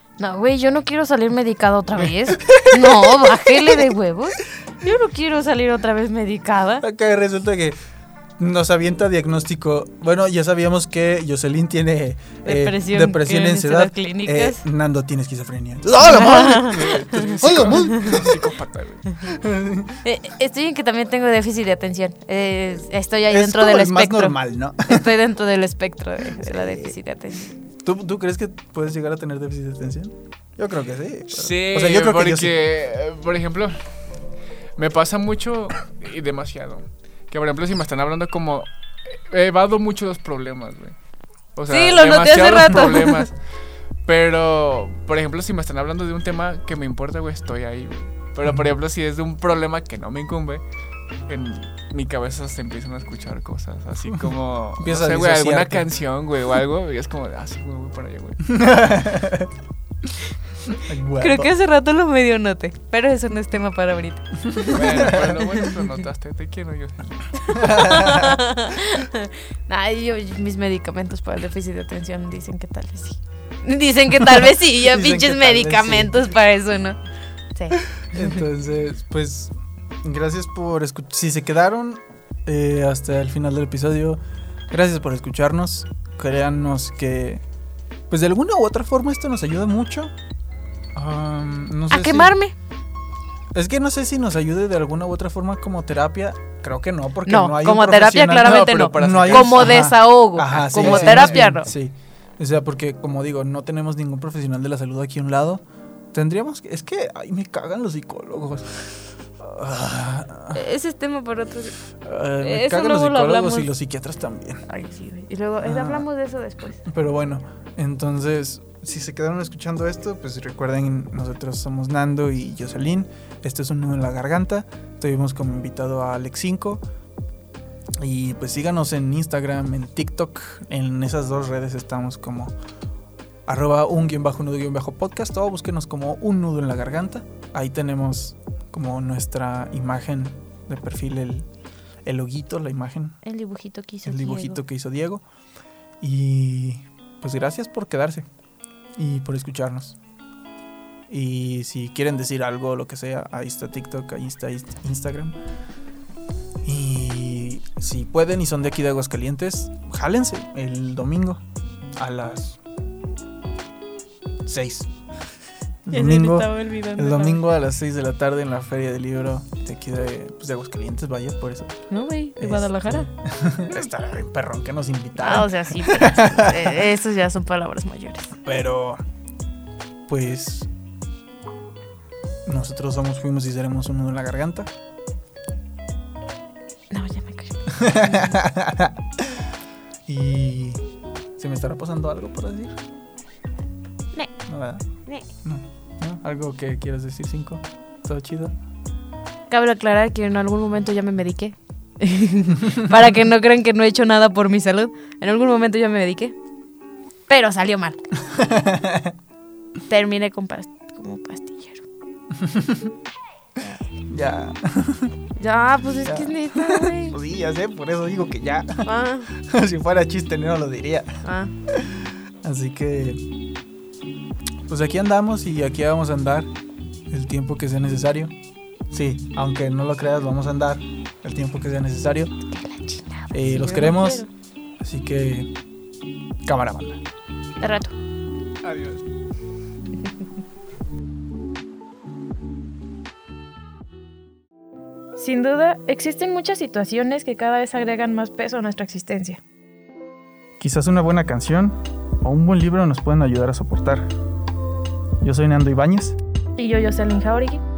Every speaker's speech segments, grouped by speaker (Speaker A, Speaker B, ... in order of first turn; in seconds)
Speaker A: 0.2-6.8, 12.4-14.6, 16.1-17.1, 20.0-24.4, 24.9-27.5, 41.7-43.2, 61.2-65.7, 67.5-77.0, 77.5-78.4, 91.9-92.5, 97.2-101.7, 110.5-111.8, 112.4-113.7, 114.7-116.8, 143.2-144.6, 165.9-167.4, 171.9-173.1, 175.2-178.3, 186.9-188.3, 194.1-194.4, 199.5-206.3, 207.3-208.0, 209.9-211.8, 215.4-217.2, 218.8-219.3, 221.2-221.5, 232.5-234.3, 237.6-237.9, 245.2-249.4, 256.6-257.6
Speaker B: 2.4-3.8, 6.8-7.8, 8.4-18.4, 19.2-20.0, 23.3-25.1, 26.4-26.9, 27.8-32.5, 54.1-55.9, 58.5-59.5, 60.8-61.5, 64.5-65.1, 67.5-68.3, 74.8-76.3, 77.7-84.2, 84.7-87.4, 88.1-90.1, 90.9-92.3, 93.5-105.6, 106.1-110.6, 111.9-114.6, 115.6-116.0, 116.8-126.8, 128.0-132.5, 133.4-141.5, 142.0-143.2, 144.0-145.2, 146.0-148.3, 148.9-150.0, 151.1-155.4, 156.6-161.4, 161.9-162.6, 164.4-164.9, 165.8-171.8, 172.4-176.8, 178.4-179.0, 180.1-180.7, 182.4-184.7, 187.7-189.0, 190.1-190.8, 191.4-192.8, 194.4-194.8, 195.4-198.5, 208.2-209.1, 212.4-212.9, 214.1-215.1, 216.0-223.2, 224.7-226.5, 227.1-228.3, 228.9-232.3, 233.3-234.3, 234.8-235.5, 236.4-237.0, 250.6-254.1, 255.2-256.1
Speaker C: 16.7-19.1, 31.3-34.0, 34.8-41.0, 41.5-43.4, 44.0-50.6, 51.3-58.4, 64.7-67.5, 98.4-99.9, 100.5-101.5, 238.6-239.0